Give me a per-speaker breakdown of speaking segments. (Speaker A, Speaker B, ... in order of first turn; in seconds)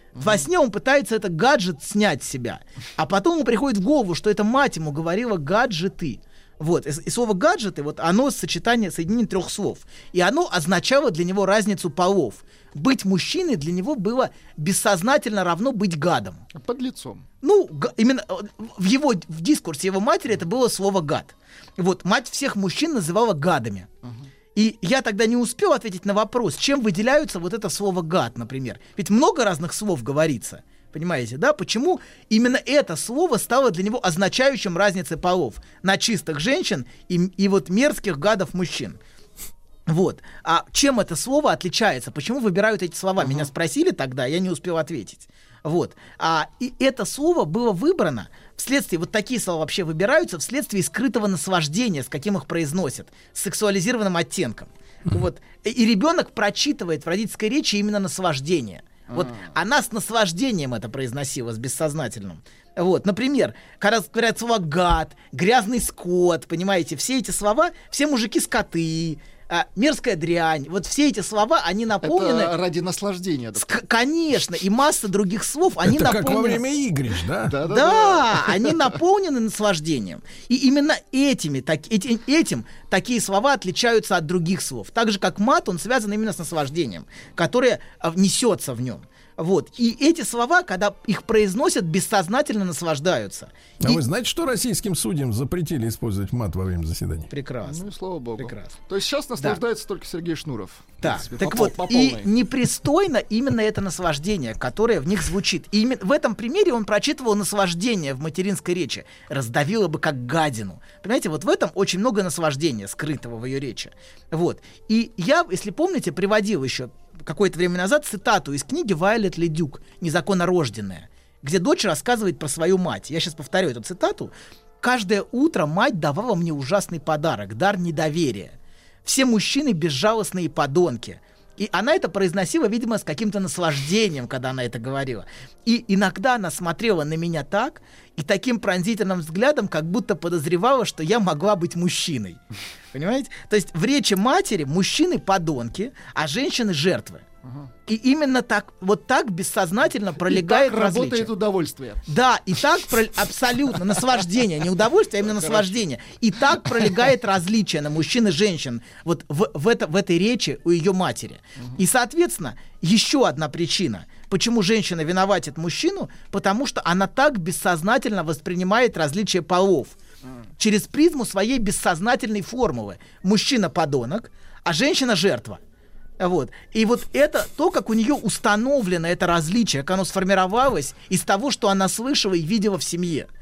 Speaker A: 0.2-16.4, 17.4-23.9, 24.6-39.0, 39.9-72.5, 73.6-76.6, 77.7-94.0, 97.3-97.8, 98.4-98.8, 101.0-142.4, 142.9-147.2, 147.9-151.3, 152.1-170.0, 170.6-175.6, 176.2-183.3
Speaker B: 16.6-17.2, 59.1-59.4, 72.0-73.7, 77.5-78.9, 97.7-102.3, 150.3-152.1, 155.3-155.8
Speaker C: 75.8-77.6, 93.8-97.3